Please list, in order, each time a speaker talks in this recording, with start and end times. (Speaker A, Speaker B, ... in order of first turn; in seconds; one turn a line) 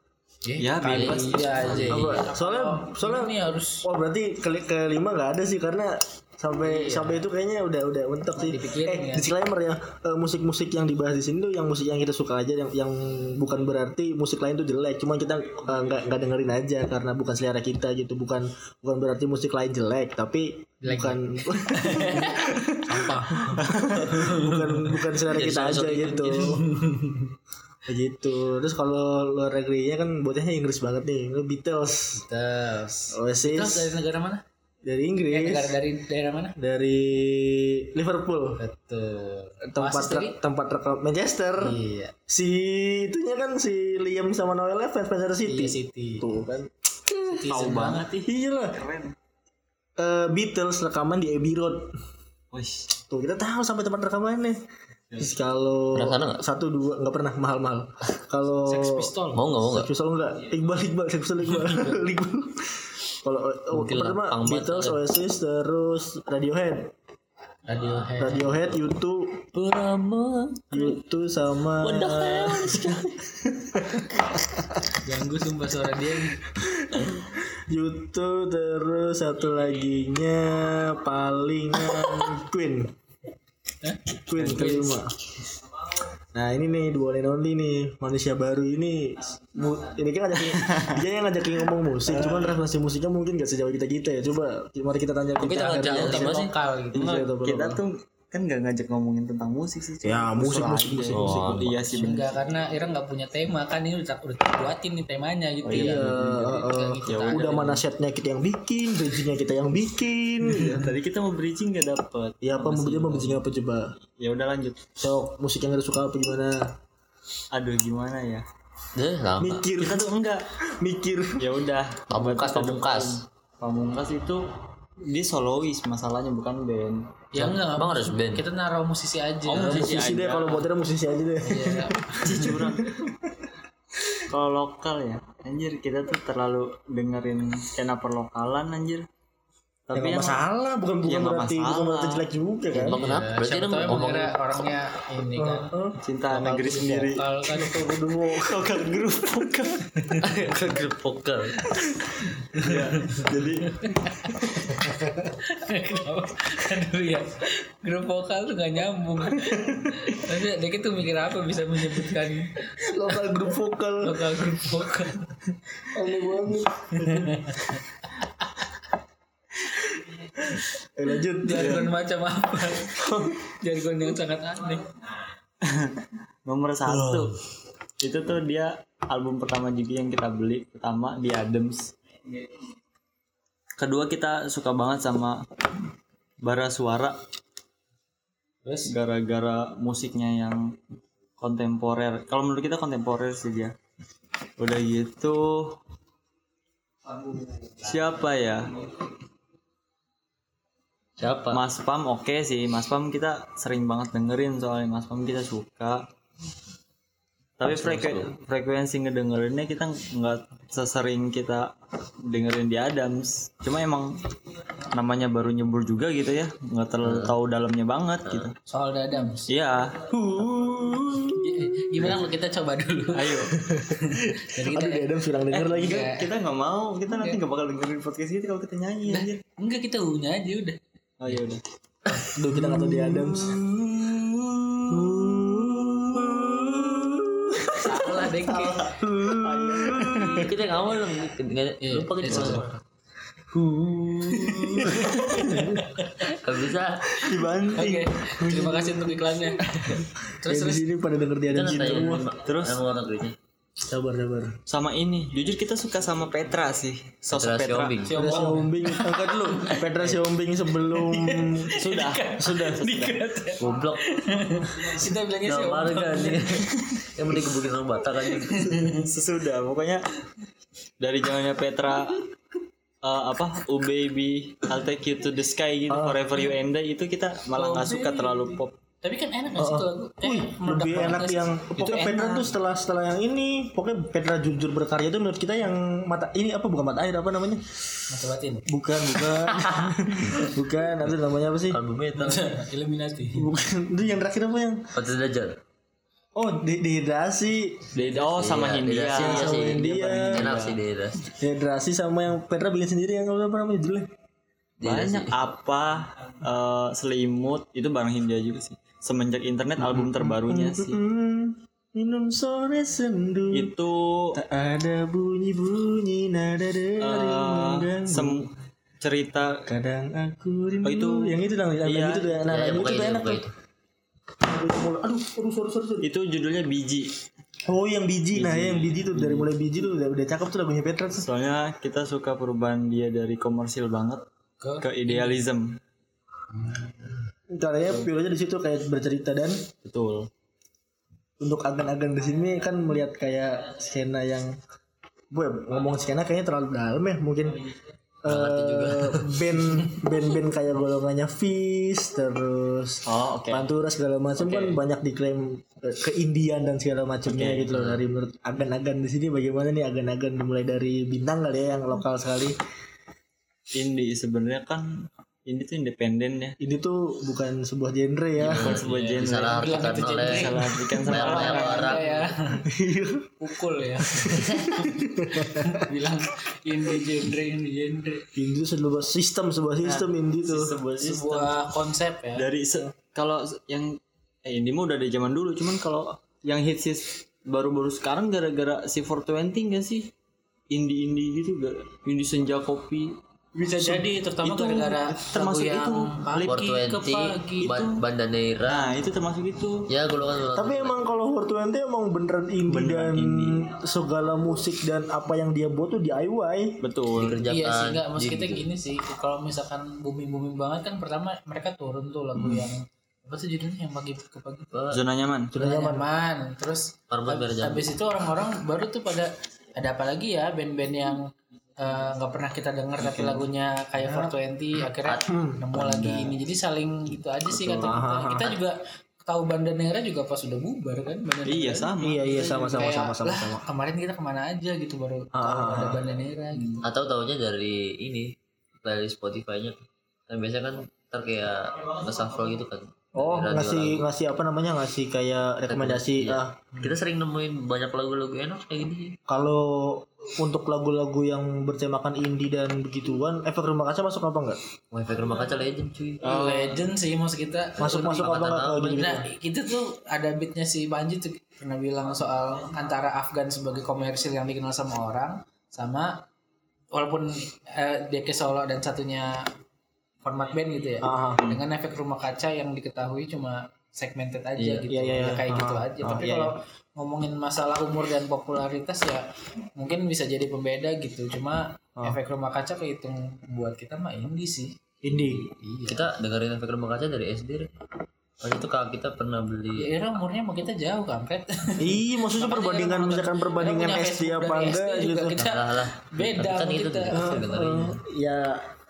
Speaker A: 0.4-3.9
Speaker B: 0.6-1.8
Speaker C: 0.8-2.3
Speaker D: 1.9-26.6
Speaker A: 6.6-7.2
Speaker A: 8.3-9.3
Speaker A: 20.8-21.2
Speaker A: 21.7-24.9
Speaker C: 25.2-26.5
Speaker A: 26.2-27.3
Speaker D: 27.9-32.2
Speaker A: 32.1-34.4
Speaker D: 33.1-34.0
Speaker D: 34.8-35.8
Speaker A: 35.3-36.5
Speaker D: 36.6-38.6
Speaker A: 38.6-40.4
Speaker D: 39.6-47.5
Speaker A: 41.6-42.1
Speaker A: 45.5-46.2
Speaker A: 47.3-48.2
Speaker B: 47.5-49.1
Speaker D: 48.2-48.8
Speaker D: 50.0-51.9
Speaker B: 52.5-52.9
Speaker D: 53.1-54.6
Speaker D: 55.2-59.1
Speaker C: 55.9-56.4
Speaker A: 58.7-59.5
Speaker C: 59.3-59.9
Speaker D: 59.6-66.9
Speaker C: 63.7-65.0
Speaker A: 67.7-68.5
Speaker D: 68.2-69.4
Speaker C: 69.5-71.0
Speaker D: 70.7-74.6
Speaker C: 71.8-73.1
Speaker A: 75.0-76.4
Speaker D: 76.5-82.9
Speaker A: 83.8-84.9
Speaker D: 84.2-85.1
Speaker B: 84.3-84.9
Speaker D: 86.3-97.8
Speaker B: 90.4-91.0
Speaker B: 92.1-92.5
Speaker C: 95.4-96.5
Speaker A: 95.4-97.1
Speaker B: 96.9-102.4
Speaker D: 100.0-102.0
Speaker C: 101.1-101.7
Speaker A: 101.9-107.7
Speaker B: 105.6-106.5
Speaker D: 105.7-110.9
Speaker B: 107.1-107.8
Speaker B: 110.4-113.3
Speaker D: 112.4-113.9
Speaker B: 114.2-114.8
Speaker D: 115.0-116.7
Speaker B: 117.5-118.4
Speaker C: 118.9-119.6
Speaker D: 119.4-120.1
Speaker B: 119.8-120.4
Speaker D: 120.7-121.5
Speaker B: 121.4-124.4
Speaker C: 122.1-123.2
Speaker B: 125.1-127.0
Speaker A: 127.3-129.6
Speaker C: 127.3-128.4
Speaker B: 129.5-130.7
Speaker D: 129.5-133.5
Speaker C: 129.5-130.1
Speaker A: 131.4-132.5
Speaker B: 132.2-132.9
Speaker B: 134.3-139.1
Speaker D: 139.9-143.1
Speaker B: 139.9-140.4
Speaker B: 141.0-142.3
Speaker C: 142.7-144.4
Speaker A: 142.9-145.7
Speaker D: 145.3-148.8
Speaker B: 146.0-147.2
Speaker A: 147.0-148.0
Speaker B: 148.3-150.5
Speaker C: 150.2-151.6
Speaker A: 152.5-162.8
Speaker B: 152.6-153.8
Speaker D: 162.8-164.8
Speaker A: 164.0-165.3
Speaker D: 165.9-167.8
Speaker A: 167.0-167.8
Speaker D: 170.0-171.9
Speaker A: 171.4-173.0
Speaker B: 171.6-171.9
Speaker D: 173.0-173.3
Speaker A: 173.5-174.8
Speaker B: 175.6-177.3
Speaker D: 176.8-177.4
Speaker B: 178.0-181.9
Speaker B: 183.8-185.4
Speaker B: 186.4-187.2
Speaker A: 188.6-188.9
Speaker B: 188.8-190.6
Speaker B: 191.4-193.7
Speaker B: 194.6-195.8
Speaker B: 197.8-198.7
Speaker C: 201.2-201.6
Speaker B: 201.5-206.0
Speaker B: 207.6-211.7
Speaker C: 207.7-208.3
Speaker B: 212.2-214.2
Speaker B: 214.9-218.5
Speaker C: 217.0-217.3
Speaker C: 218.2-218.5
Speaker A: 218.7-219.5
Speaker B: 219.4-220.1
Speaker D: 220.1-222.2
Speaker A: 221.3-225.1
Speaker B: 223.1-223.5
Speaker D: 223.5-226.0
Speaker B: 225.5-229.4
Speaker A: 225.8-226.3
Speaker A: 227.1-227.4
Speaker A: 229.1-230.8
Speaker B: 231.2-231.6
Speaker D: 232.3-233.6
Speaker B: 233.6-234.8
Speaker D: 234.9-240.5
Speaker A: 237.7-239.0
Speaker B: 239.3-240.5
Speaker C: 240.2-242.7
Speaker A: 241.8-242.8
Speaker B: 242.3-242.7
Speaker D: 243.5-245.9
Speaker A: 244.3-246.4
Speaker C: 246.2-247.2
Speaker D: 247.2-247.8
Speaker B: 247.2-248.1
Speaker A: 247.7-250.8
Speaker D: 248.4-249.1
Speaker D: 250.4-252.3
Speaker C: 251.5-253.3
Speaker B: 252.4-252.8
Speaker D: 253.8-254.6
Speaker B: 254.7-258.0
Speaker C: 257.3-258.4
Speaker A: 258.1-259.9
Speaker D: 258.1-263.2
Speaker B: 260.9-262.6
Speaker A: 261.7-266.7
Speaker C: 263.6-264.0
Speaker C: 265.4-268.7
Speaker A: 268.5-268.8
Speaker B: 268.6-270.0
Speaker B: 271.0-272.2
Speaker B: 273.0-278.7
Speaker D: 275.9-276.4
Speaker A: 277.6-282.5
Speaker D: 279.6-287.7
Speaker A: 288.1-288.6
Speaker D: 288.7-291.8
Speaker C: 291.7-292.6
Speaker A: 292.1-293.5
Speaker D: 293.3-294.9
Speaker C: 294.9-295.6
Speaker D: 296.4-297.9
Speaker B: 297.9-300.8
Speaker C: 298.2-301.3
Speaker D: 299.1-300.6
Speaker D: 301.4-304.1
Speaker C: 304.8-305.4
Speaker B: 304.8-311.0
Speaker D: 309.8-313.7
Speaker B: 313.5-314.4
Speaker D: 314.3-318.5
Speaker B: 317.0-318.5
Speaker B: 319.0-319.6
Speaker D: 319.7-323.4
Speaker B: 320.8-322.4
Speaker C: 322.5-323.5
Speaker D: 324.4-326.1
Speaker B: 326.0-327.1
Speaker D: 327.6-331.3
Speaker B: 328.3-329.5
Speaker B: 331.2-334.2
Speaker A: 334.6-335.4
Speaker B: 334.8-335.7
Speaker A: 336.5-337.1
Speaker D: 337.5-339.6
Speaker B: 339.8-340.3
Speaker D: 341.4-344.6
Speaker D: 345.3-347.6
Speaker D: 348.2-362.5
Speaker C: 348.2-349.4
Speaker B: 353.1-353.7
Speaker B: 354.4-354.8
Speaker B: 357.3-357.7
Speaker C: 357.7-358.0
Speaker B: 363.8-366.6
Speaker D: 366.6-368.8
Speaker C: 368.4-372.0
Speaker B: 368.4-372.2
Speaker A: 368.8-372.6
Speaker D: 372.6-373.4
Speaker A: 373.4-378.2
Speaker D: 374.0-375.8
Speaker C: 374.3-374.9
Speaker D: 378.3-380.7
Speaker B: 379.8-381.5
Speaker A: 381.0-382.4
Speaker B: 382.4-390.1
Speaker B: 390.7-393.1
Speaker D: 393.6-394.0
Speaker A: 393.7-397.8
Speaker B: 394.4-396.6
Speaker C: 396.4-399.0
Speaker B: 397.6-397.9
Speaker B: 398.6-399.9
Speaker C: 399.9-401.0
Speaker D: 400.5-406.8
Speaker B: 402.7-403.6
Speaker B: 406.8-407.4
Speaker C: 407.1-408.6
Speaker A: 407.5-414.7
Speaker C: 414.7-415.0
Speaker B: 414.9-415.5
Speaker D: 415.5-416.1
Speaker A: 415.5-421.3
Speaker C: 417.1-417.9
Speaker A: 421.8-436.8
Speaker B: 423.0-423.4
Speaker D: 424.0-424.3
Speaker C: 425.0-426.4
Speaker D: 425.3-425.6
Speaker C: 427.5-427.9
Speaker D: 427.7-428.6
Speaker B: 431.4-432.5
Speaker D: 432.0-433.6
Speaker D: 435.3-436.0
Speaker C: 436.8-444.0
Speaker D: 443.1-446.6
Speaker C: 445.7-449.2
Speaker D: 449.3-454.6
Speaker C: 454.9-456.3
Speaker B: 456.2-456.8
Speaker A: 456.2-466.2
Speaker D: 457.8-459.3
Speaker C: 457.8-459.0
Speaker A: 466.9-469.4
Speaker A: 470.2-479.2
Speaker D: 471.0-471.4
Speaker C: 474.6-474.9
Speaker D: 474.9-476.5
Speaker A: 479.8-484.7
Speaker D: 485.0-485.4
Speaker C: 485.1-487.7
Speaker A: 485.6-486.1
Speaker C: 488.4-489.9
Speaker A: 489.8-497.3
Speaker D: 491.8-495.4
Speaker C: 495.4-498.0
Speaker D: 497.1-498.6